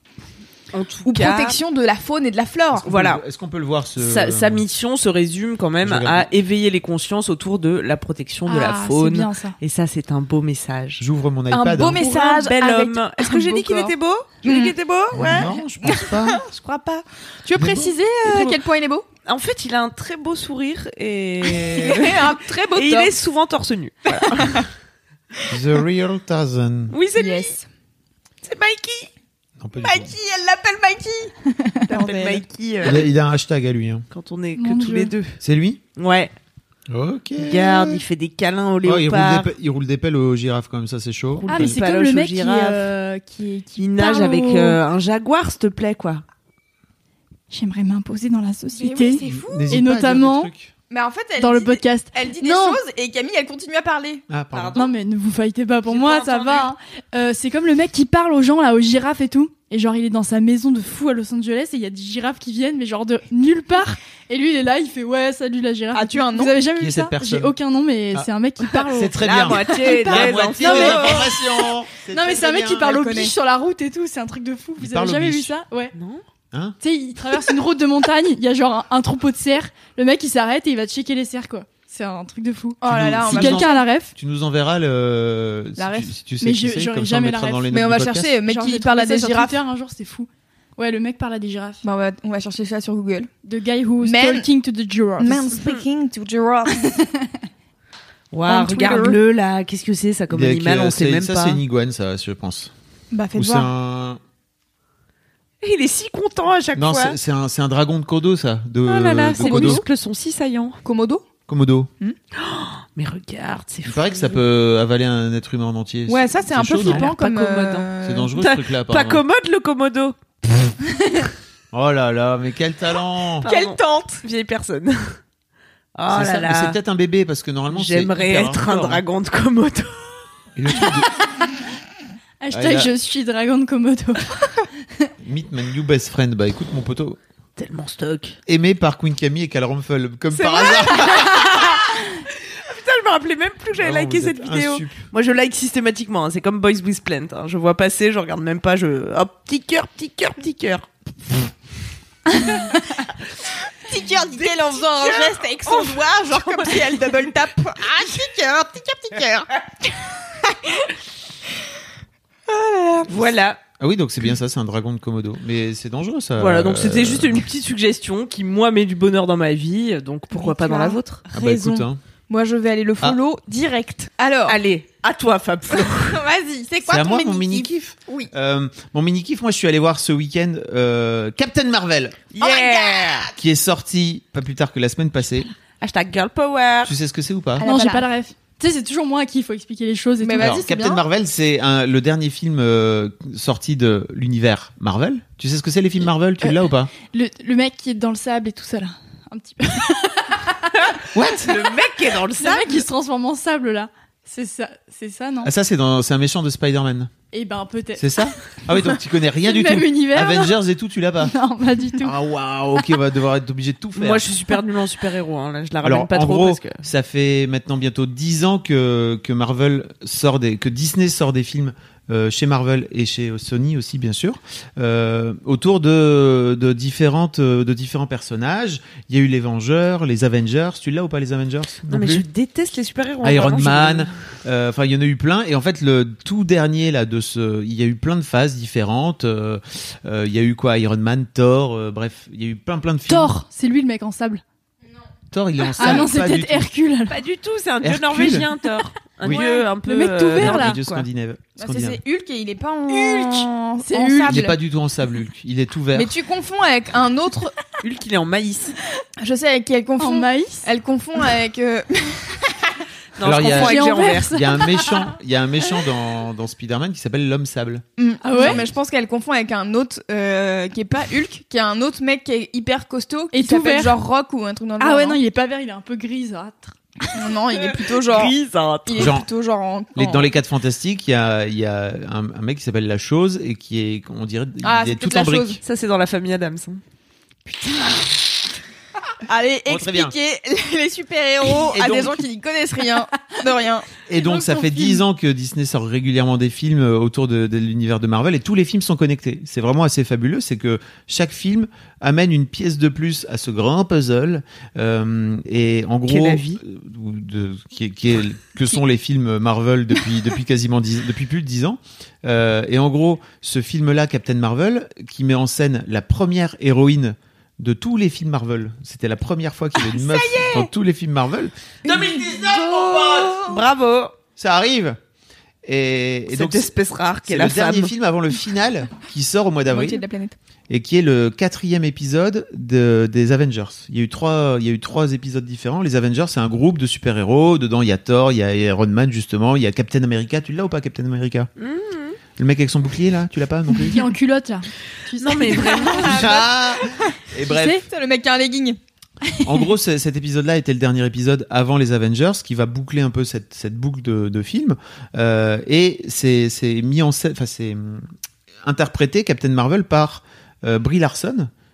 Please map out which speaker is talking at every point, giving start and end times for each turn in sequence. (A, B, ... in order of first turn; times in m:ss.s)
0:00.7-0:01.6 A
0:01.0-0:02.8 B
0:02.7-0:04.6 C
0:02.8-0:03.2 A
0:04.0-0:11.0 A
0:05.8-0:06.3 C
0:08.4-0:09.6 D
0:11.0-0:12.0 C
0:11.5-0:16.3 B
0:11.9-0:15.6 A
0:15.1-0:16.4 C
0:16.2-0:17.0 A
0:17.4-0:19.0 B
0:17.6-0:17.9 C
0:18.2-0:18.6 A
0:19.2-0:24.6 A
0:21.6-0:23.1 B
0:24.1-0:24.6 B
0:25.5-0:26.9 C
0:26.9-0:27.6 A
0:27.1-0:27.6 B
0:28.4-0:29.1 A
0:29.6-0:30.1 C
0:29.8-0:31.3 B
0:31.8-0:32.4 B
0:31.9-0:33.1 A
0:32.8-0:34.0 C
0:34.1-0:35.4 A
0:34.6-0:35.1 D
0:35.4-0:35.8 C
0:36.0-0:36.3 A
0:36.9-0:38.0 C
0:37.4-0:39.5 A
0:38.8-0:41.8 C
0:41.3-0:42.9 A
0:41.5-0:44.8 D
0:43.8-0:46.2 A
0:47.5-0:50.5 D
0:48.8-0:49.8 B
0:49.2-0:50.7 C
0:50.9-0:54.2 B
0:51.4-0:52.8 D
0:54.3-0:54.8 C
0:54.5-0:54.9 A
0:54.8-1:15.9 D
0:55.9-0:56.7 A
1:05.9-1:06.5 B
1:06.8-1:07.5 C
1:08.9-1:13.0 C
1:09.1-1:11.3 A
1:12.8-1:13.3 B
1:14.8-1:15.5 C
1:15.9-1:16.2 A
1:16.8-1:24.1 D
1:22.8-1:23.8 B
1:22.8-1:28.4 C
1:25.8-1:26.1 B
1:26.4-1:27.7 D
1:27.7-1:29.6 B
1:28.4-1:31.8 D
1:31.8-1:33.3 B
1:33.4-1:35.5 D
1:34.0-1:34.5 B
1:35.2-1:37.0 B
1:38.3-1:41.6 A
1:38.5-1:39.2 B
1:40.3-1:42.7 C
1:43.1-1:43.7 B
1:43.4-1:44.2 C
1:45.6-1:47.2 A
1:46.8-1:49.8 C
1:48.8-1:50.8 A
1:49.4-1:49.8 B
1:50.8-1:51.2 B
1:51.5-1:51.9 C
1:52.3-1:54.4 A
1:53.8-1:57.1 C
1:56.1-1:58.4 B
1:56.8-2:00.2 A
1:58.0-1:59.2 C
2:01.7-2:03.5 C
2:03.4-2:05.2 A
2:03.4-2:04.2 B
2:05.9-2:06.8 A
2:06.1-2:09.0 C
2:07.7-2:10.2 A
2:10.6-2:11.1 C
2:12.4-2:14.4 D
2:12.5-2:12.9 C
2:15.2-2:17.2 C
2:17.6-2:18.4 A
2:18.5-2:21.6 C
2:20.3-2:30.9 A
2:23.8-2:25.1 C
2:33.9-2:39.9 B
2:34.0-2:37.1 A
2:40.4-2:40.9 B
2:42.5-2:43.2 B
2:43.0-2:43.6 A
2:43.8-2:47.4 C
2:46.4-2:51.3 A
2:50.3-2:54.6 B
2:51.3-2:52.0 C
2:54.4-2:56.2 A
2:55.7-2:58.3 B
2:56.8-3:02.2 C
3:02.3-3:03.3 A
3:02.4-3:03.3 B
3:03.3-3:05.5 C
3:05.8-3:06.9 A
3:06.8-3:07.6 C
3:07.6-3:08.1 B
3:07.6-3:10.7 D
3:10.2-3:11.0 B
3:10.4-3:16.9 C
3:17.1-3:20.8 D
3:21.1-3:21.5 C
3:21.4-3:22.8 A
3:22.4-3:25.5 D
3:25.4-3:27.1 C
3:27.3-3:28.1 D
3:28.0-3:31.3 C
3:29.4-3:30.6 D
3:31.2-3:32.2 D
3:32.0-3:34.3 C
3:33.9-3:36.8 A
3:35.8-3:52.2 C
3:51.9-3:54.1 A
3:53.2-4:03.3 C
4:03.1-4:04.4 D
4:05.3-4:06.7 C
4:05.8-4:07.2 D
4:07.1-4:11.1 A
4:07.8-4:08.5 C
4:09.3-4:09.6 B
4:09.8-4:10.8 D
4:10.4-4:12.0 C
4:11.6-4:14.6 B
4:12.9-4:14.4 D
4:14.3-4:16.1 C
4:15.9-4:17.6 B
4:17.8-4:18.8 A
4:19.2-4:22.6 B
4:20.0-4:20.7 D
4:23.2-4:24.3 A
4:23.2-4:27.8 C
4:23.5-4:25.1 D
4:28.0-4:35.2 B
4:28.2-4:28.6 D
4:33.3-4:34.0 D
4:34.8-4:37.2 D
4:37.1-4:40.3 B
4:37.9-4:39.2 A
4:39.0-4:39.3 C
4:40.0-4:45.6 C
4:44.6-4:45.6 B
4:45.6-4:46.8 A
4:47.6-4:48.0 B
4:49.3-4:55.0 B
4:49.7-4:50.1 C
4:51.6-4:52.2 C
4:54.1-5:23.4 C
5:06.0-5:06.6 A
5:19.8-5:20.7 B
5:21.8-5:23.6 B
5:21.9-5:24.1 A
5:24.4-5:25.0 C
5:25.6-5:30.0 C
5:26.3-5:27.9 A
5:29.7-5:30.4 B
5:30.7-5:41.5 C
5:41.6-5:42.2 A
5:42.4-5:44.0 C
5:43.8-5:46.1 D
5:45.2-5:46.4 A
5:45.7-5:48.8 B
5:46.0-5:47.8 C
5:47.5-5:47.8 D
5:49.4-5:58.1 C
5:58.6-6:01.5 C